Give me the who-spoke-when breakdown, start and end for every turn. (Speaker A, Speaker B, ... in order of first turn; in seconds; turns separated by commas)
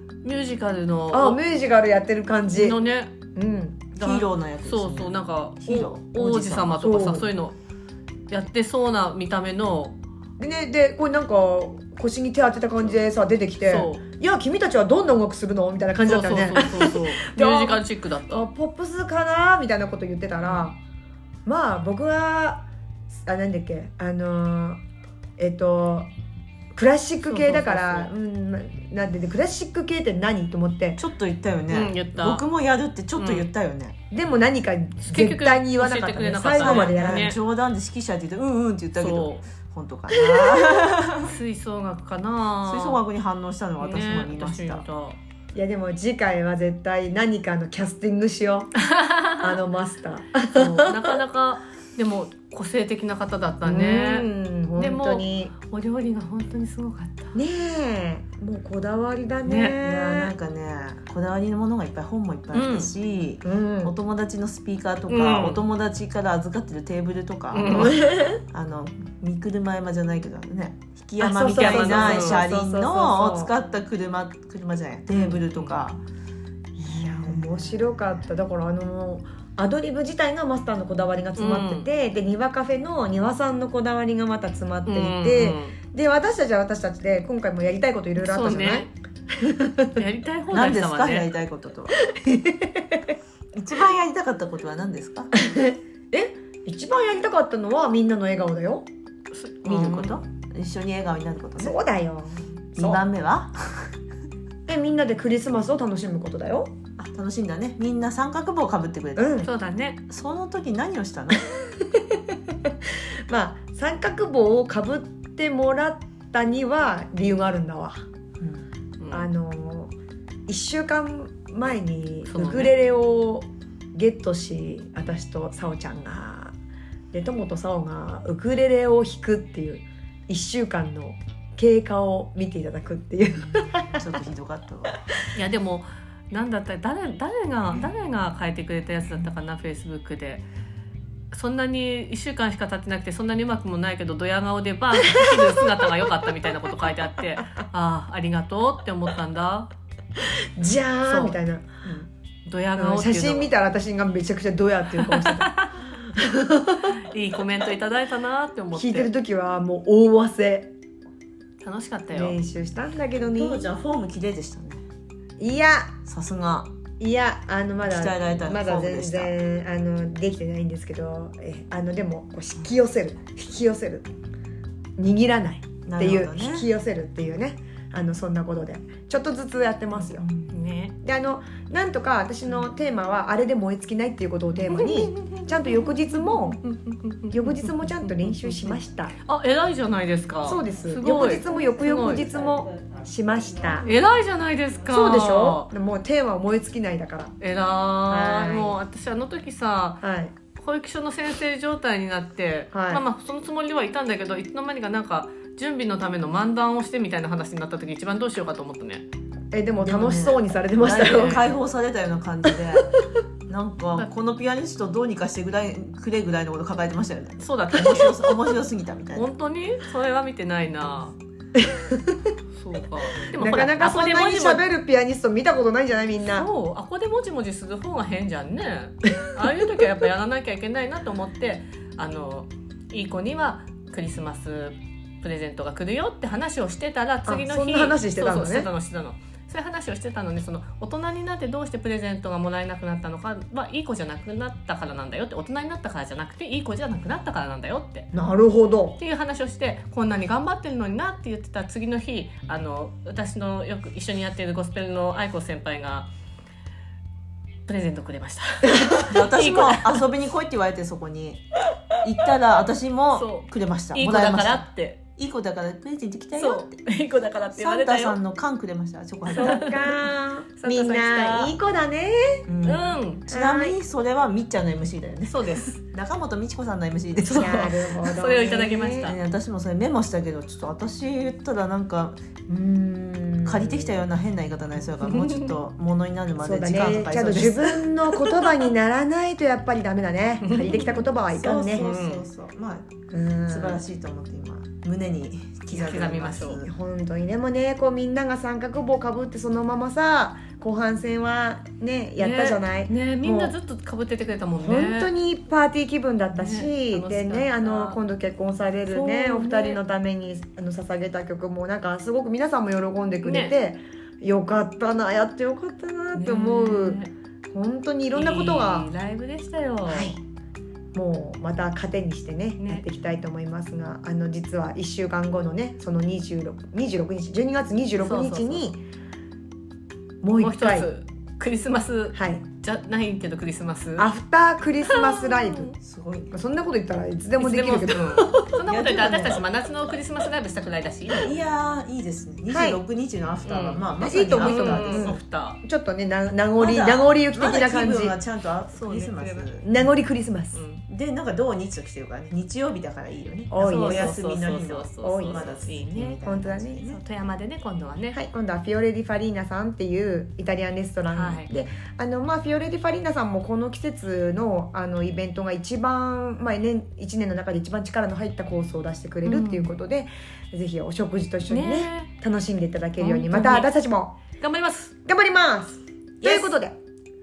Speaker A: 0.2-1.4, Speaker B: 1.1-2.8, Speaker A: 2.5-3.1, Speaker B: 3.3-3.9, Speaker C: 4.0-6.8, Speaker A: 4.0-7.5, Speaker B: 6.8-7.3, Speaker A: 8.3-10.0, Speaker B: 10.4-20.8, Speaker A: 13.6-14.0, Speaker A: 16.1-18.4, Speaker B: 21.4-24.8, Speaker B: 25.4-26.1, Speaker B: 26.8-31.0, Speaker A: 27.2-28.1, Speaker C: 31.0-34.0, Speaker A: 31.7-32.4, Speaker A: 33.1-33.5, Speaker B: 34.1-37.3, Speaker A: 35.0-37.4, Speaker C: 36.6-41.3, Speaker A: 39.0-39.5, Speaker A: 41.2-43.0, Speaker C: 42.6-44.9, Speaker A: 43.8-45.2, Speaker B: 45.5-48.8, Speaker A: 48.8-49.5, Speaker B: 49.4-51.1, Speaker A: 50.5-54.2, Speaker B: 53.6-55.5, Speaker A: 54.8-57.4, Speaker B: 57.3-60.3, Speaker A: 59.4-59.8, Speaker C: 59.8-76.0, Speaker A: 62.5-62.9, Speaker B: 63.4-63.9, Speaker A: 65.1-65.6, Speaker A: 67.5-68.1, Speaker B: 67.7-68.4, Speaker B: 71.2-73.5, Speaker A: 71.5-72.4, Speaker B: 75.1-75.4, Speaker B: 76.8-90.0, Speaker C: 76.8-78.1, Speaker A: 81.4-81.8, Speaker A: 84.9-85.8, Speaker A: 88.2-88.9, Speaker A: 90.0-91.3, Speaker C: 90.5-92.0, Speaker B: 92.0-93.0, Speaker C: 93.5-95.3, Speaker B: 95.3-98.8, Speaker A: 99.3-100.2, Speaker C: 99.6-101.8, Speaker B: 101.6-103.0, Speaker C: 102.8-103.9, Speaker B: 104.7-106.7, Speaker C: 107.0-109.4, Speaker B: 109.1-109.5, Speaker A: 109.4-110.0, Speaker C: 110.1-111.5, Speaker B: 111.3-112.3, Speaker B: 113.3-118.0, Speaker C: 118.4-118.7, Speaker A: 119.0-119.3, Speaker B: 119.1-119.9, Speaker B: 120.5-126.5, Speaker A: 122.3-122.7, Speaker B: 127.1-134.0, Speaker C: 133.9-135.0, Speaker A: 135.3-140.4, Speaker A: 141.3-149.7, Speaker B: 144.9-145.4, Speaker B: 150.6-151.8, Speaker A: 151.1-151.3, Speaker A: 152.4-153.5, Speaker B: 152.7-156.9, Speaker A: 155.0-155.8, Speaker A: 156.9-159.1, Speaker B: 158.7-160.7, Speaker A: 161.6-162.4, Speaker B: 162.1-163.7, Speaker C: 163.2-164.8, Speaker B: 165.4-165.9, Speaker C: 166.1-166.7, Speaker B: 167.0-174.1, Speaker C: 167.8-169.4, Speaker B: 175.0-180.3, Speaker C: 175.8-176.7, Speaker A: 180.3-180.9, Speaker B: 181.0-186.6, Speaker A: 184.7-187.5, Speaker B: 187.3-189.1, Speaker A: 188.1-192.3, Speaker B: 190.4-193.9, Speaker A: 193.8-195.7, Speaker B: 194.9-197.3, Speaker A: 197.4-200.0, Speaker B: 198.1-198.8, Speaker B: 200.0-200.3, Speaker A: 200.5-209.0, Speaker B: 202.7-203.0, Speaker B: 209.5-211.4, Speaker C: 209.8-212.9, Speaker A: 210.8-211.5, Speaker B: 212.5-212.8, Speaker C: 213.5-219.3, Speaker A: 217.4-218.1, Speaker A: 219.1-221.1, Speaker B: 221.6-222.3, Speaker A: 222.5-224.6, Speaker B: 223.3-226.5, Speaker A: 226.3-248.1, Speaker B: 237.2-238.7, Speaker B: 248.1-249.0, Speaker A: 249.0-256.1, Speaker A: 257.7-260.0, Speaker B: 258.7-259.1, Speaker C: 259.0-261.4, Speaker C: 262.0-266.7, Speaker A: 263.1-265.0, Speaker A: 266.4-268.2, Speaker C: 267.5-269.8, Speaker B: 269.3-272.5, Speaker A: 269.3-270.0, Speaker A: 270.6-271.5, Speaker C: 272.5-277.6, Speaker A: 272.6-273.2, Speaker B: 273.3-273.8, Speaker A: 275.3-275.8, Speaker B: 277.2-279.1, Speaker A: 277.2-279.2, Speaker C: 279.0-282.2, Speaker B: 282.5-284.0, Speaker C: 283.4-287.9, Speaker A: 285.0-285.5, Speaker B: 286.4-291.9, Speaker A: 290.4-291.0, Speaker C: 290.8-296.7, Speaker A: 291.7-292.2, Speaker B: 293.1-293.8, Speaker A: 295.7-296.6, Speaker B: 296.6-303.5, Speaker A: 302.2-305.1, Speaker B: 304.6-317.0, Speaker A: 306.3-308.0, Speaker A: 308.9-309.8, Speaker A: 313.2-313.5, Speaker A: 316.1-317.1, Speaker B: 317.5-318.9, Speaker A: 318.1-320.2, Speaker B: 319.9-320.2, Speaker B: 320.9-328.8, Speaker A: 322.6-322.8, Speaker A: 328.0-328.7, Speaker B: 330.2-330.9, Speaker A: 330.4-334.1, Speaker B: 332.1-332.4, Speaker B: 334.0-335.7, Speaker A: 334.8-335.7, Speaker C: 335.8-336.4, Speaker B: 336.3-338.5, Speaker A: 337.4-341.4, Speaker C: 338.6-339.4, Speaker C: 341.1-345.2, Speaker B: 342.5-342.8, Speaker A: 343.4-345.6, Speaker B: 344.0-348.2, Speaker C: 346.6-349.7, Speaker A: 348.7-349.5, Speaker B: 349.6-350.6, Speaker A: 350.5-350.8, Speaker C: 350.9-357.0, Speaker B: 353.5-354.1, Speaker A: 353.6-356.2, Speaker B: 355.0-355.6, Speaker B: 356.2-356.9, Speaker A: 356.9-358.2, Speaker B: 358.1-374.1, Speaker A: 361.1-361.5, Speaker A: 369.2-369.7, Speaker A: 371.5-372.1, Speaker A: 373.0-373.7, Speaker A: 374.4-374.9, Speaker B: 375.1-376.8